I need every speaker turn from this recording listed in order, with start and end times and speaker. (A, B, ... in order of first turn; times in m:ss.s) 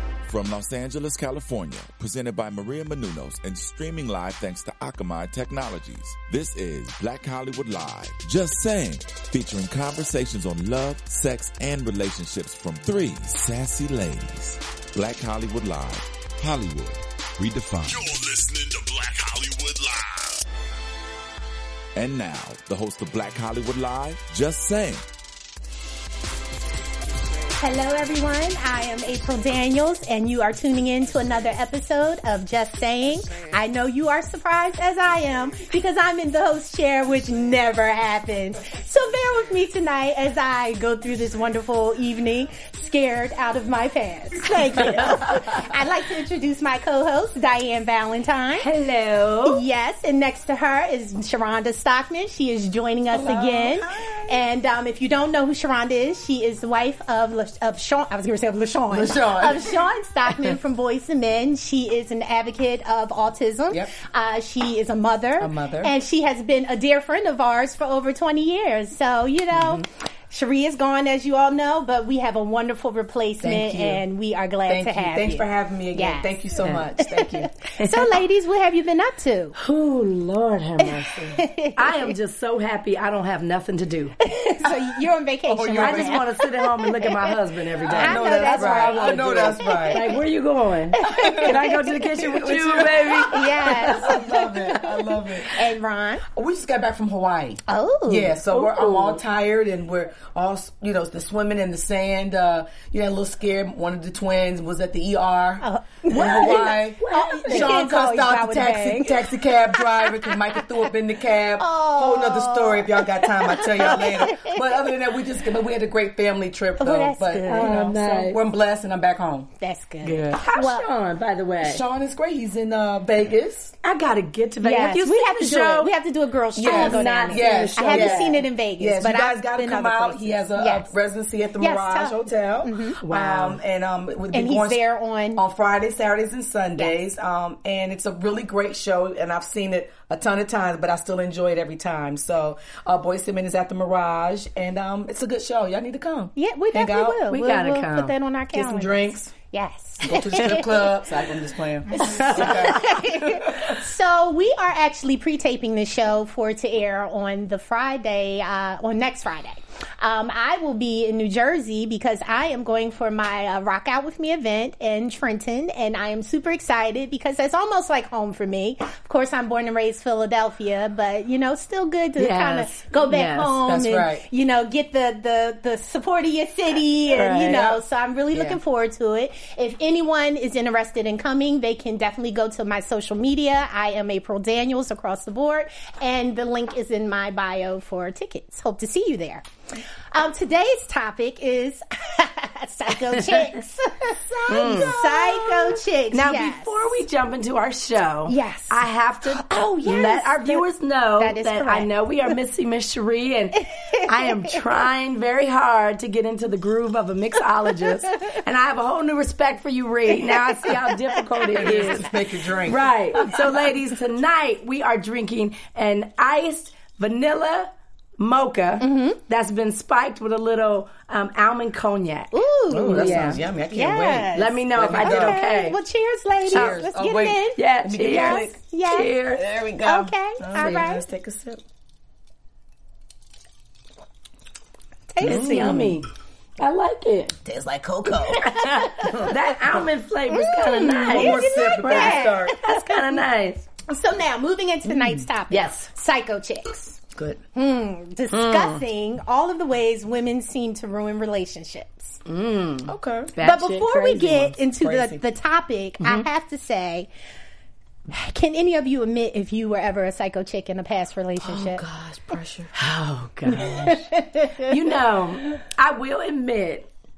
0:00.3-0:18.1 A
0:17.8-0:20.4 B
0:22.0-0:25.0 A
0:27.6-0:48.7 C
0:48.6-0:49.6 D
0:49.4-1:16.3 C
0:53.1-0:54.4 E
0:58.9-0:59.7 E
1:05.4-1:05.9 E
1:13.4-1:14.0 E
1:14.7-1:17.5 E
1:16.6-1:16.9 D
1:17.0-1:19.6 C
1:17.8-1:18.1 D
1:19.6-1:24.2 D
1:20.8-1:22.1 C
1:24.2-1:30.1 C
1:25.5-1:26.2 E
1:25.8-1:34.2 D
1:27.9-1:30.1 E
1:30.9-1:32.2 C
1:31.0-1:35.5 E
1:33.2-1:36.2 C
1:36.3-1:59.5 E
1:37.7-1:38.4 C
1:38.5-1:39.2 D
1:45.6-1:50.6 C
1:46.1-1:47.9 D
1:51.6-1:54.6 C
1:56.8-1:57.8 C
1:57.5-1:58.4 D
1:59.6-2:00.9 C
2:00.0-2:00.4 E
2:00.3-2:01.8 D
2:01.6-2:03.7 E
2:03.8-2:05.9 D
2:04.6-2:10.9 C
2:06.6-2:14.8 E
2:06.6-2:08.5 D
2:11.6-2:13.0 C
2:13.0-2:13.6 D
2:14.3-2:15.4 C
2:15.4-2:27.3 E
2:26.4-2:30.9 C
2:27.3-2:28.1 D
2:28.5-2:29.3 E
2:30.0-2:33.8 E
2:32.0-3:09.4 C
2:32.0-2:32.8 D
2:52.2-2:53.5 D
2:53.4-2:54.2 E
2:57.1-2:57.8 D
3:10.1-3:17.0 C
3:14.3-3:15.8 E
3:14.5-3:15.0 D
3:16.1-3:32.1 D
3:18.3-3:20.7 C
3:21.2-3:21.9 C
3:23.7-3:24.6 C
3:30.6-3:31.5 C
3:31.5-3:33.6 E
3:32.6-3:42.3 D
3:38.8-3:39.2 C
3:42.3-3:49.1 C
3:42.7-3:45.4 E
3:42.8-3:43.4 D
3:44.4-3:45.8 D
3:46.5-3:48.6 E
3:47.6-3:49.4 D
3:49.3-3:51.6 E
3:49.8-3:51.0 C
3:55.1-3:55.9 C
3:55.2-3:56.0 E
3:55.2-3:56.1 D
3:56.6-3:57.4 D
3:57.4-3:59.8 E
3:58.3-4:03.7 D
3:58.5-3:59.4 C
4:00.3-4:03.2 C
4:01.0-4:02.6 E
4:03.9-4:07.0 C
4:05.5-4:05.9 D
4:07.2-4:07.4 E
4:07.6-4:12.2 C
4:08.3-4:08.8 D
4:12.3-4:14.6 D
4:12.9-4:13.4 E
4:13.4-4:17.1 C
4:14.8-4:15.2 E
4:16.0-4:16.3 D
4:18.1-4:21.8 C
4:21.4-4:22.7 E
4:22.8-4:26.9 D
4:23.5-4:24.8 C